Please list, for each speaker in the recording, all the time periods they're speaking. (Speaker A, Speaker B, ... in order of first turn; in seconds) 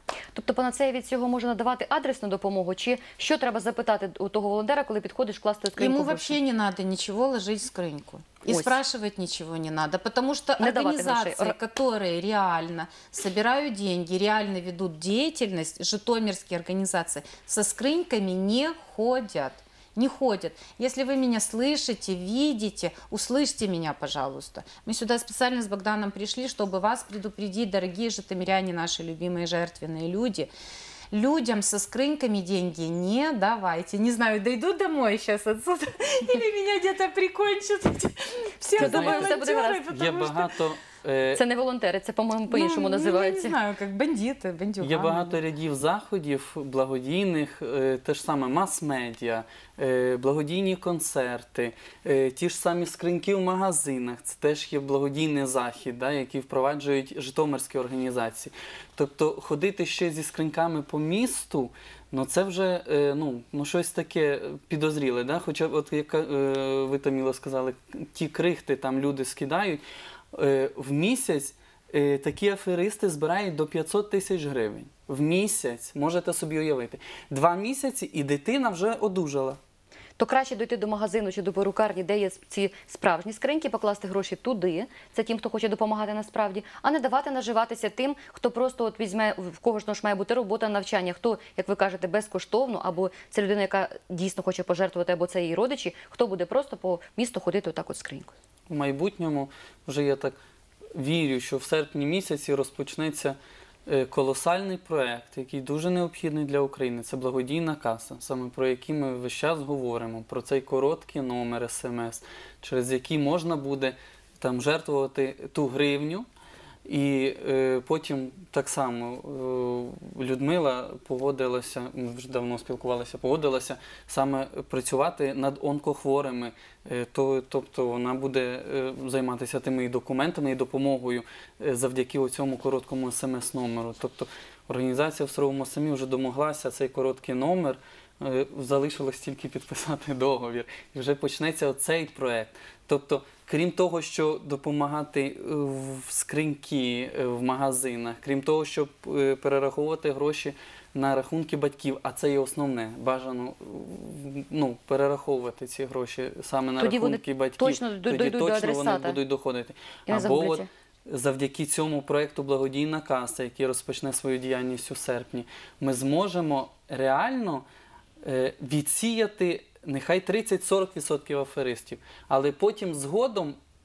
Speaker A: 0.3-6.4, 8.5-8.8, 10.6-11.6, 38.7-39.9, 41.4-43.5, 80.2-98.3, 156.8-159.2, 160.1-160.7
Speaker B: 5.8-30.5, 31.1-40.5, 42.5-45.4
Speaker C: 38.8-39.4, 39.9-41.4, 44.8-69.8, 70.3-79.6, 98.7-100.3, 100.9-116.3, 116.8-167.6, 168.2-173.6